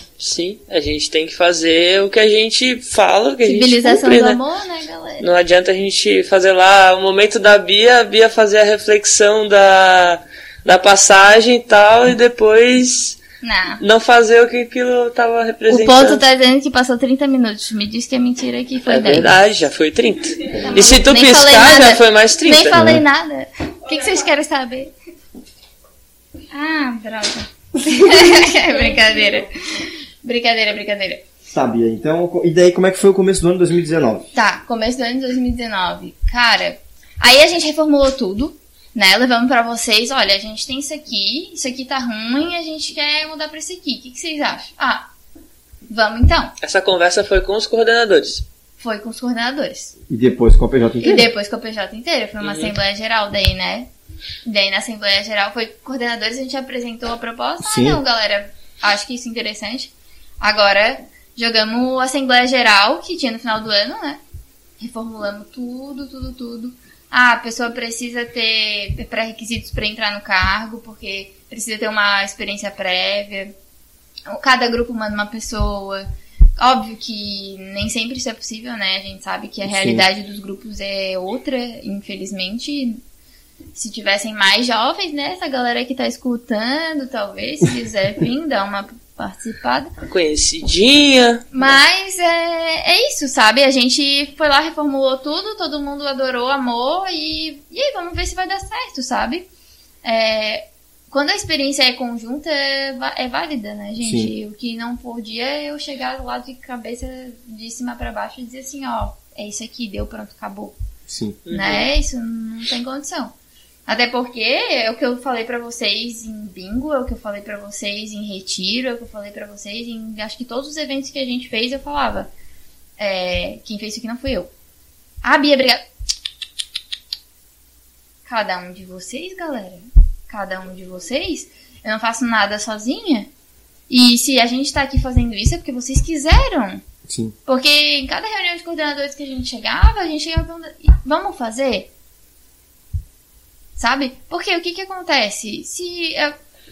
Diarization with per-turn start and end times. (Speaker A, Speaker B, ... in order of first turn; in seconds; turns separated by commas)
Speaker A: 0.2-4.4, Speaker B: 3.4-5.3, Speaker A: 5.2-13.2, Speaker B: 13.4-13.8, Speaker A: 13.8-16.2, Speaker B: 15.7-19.3, Speaker A: 18.9-22.8, Speaker B: 20.6-24.9, Speaker C: 22.7-23.0, Speaker B: 26.5-31.2, Speaker C: 27.8-28.2, Speaker C: 31.5-34.3, Speaker B: 34.3-45.1, Speaker B: 45.9-46.5, Speaker A: 46.6-48.4, Speaker B: 48.8-49.9, Speaker C: 50.1-51.3, Speaker B: 51.0-53.9, Speaker A: 52.4-52.7, Speaker B: 54.4-64.2, Speaker C: 57.6-58.0, Speaker B: 64.8-73.5, Speaker B: 74.3-76.0, Speaker B: 76.6-83.0, Speaker C: 79.7-80.0, Speaker B: 83.7-89.9, Speaker A: 90.0-91.4, Speaker B: 91.5-99.5, Speaker B: 100.0-110.8, Speaker C: 104.0-104.3, Speaker C: 111.1-111.4, Speaker A: 111.5-111.8, Speaker B: 111.5-113.3, Speaker B: 113.9-122.3, Speaker B: 123.0-124.5, Speaker B: 125.2-125.8, Speaker B: 128.2-133.3, Speaker B: 133.9-136.8, Speaker C: 137.1-137.3, Speaker B: 137.4-141.9, Speaker B: 143.8-146.3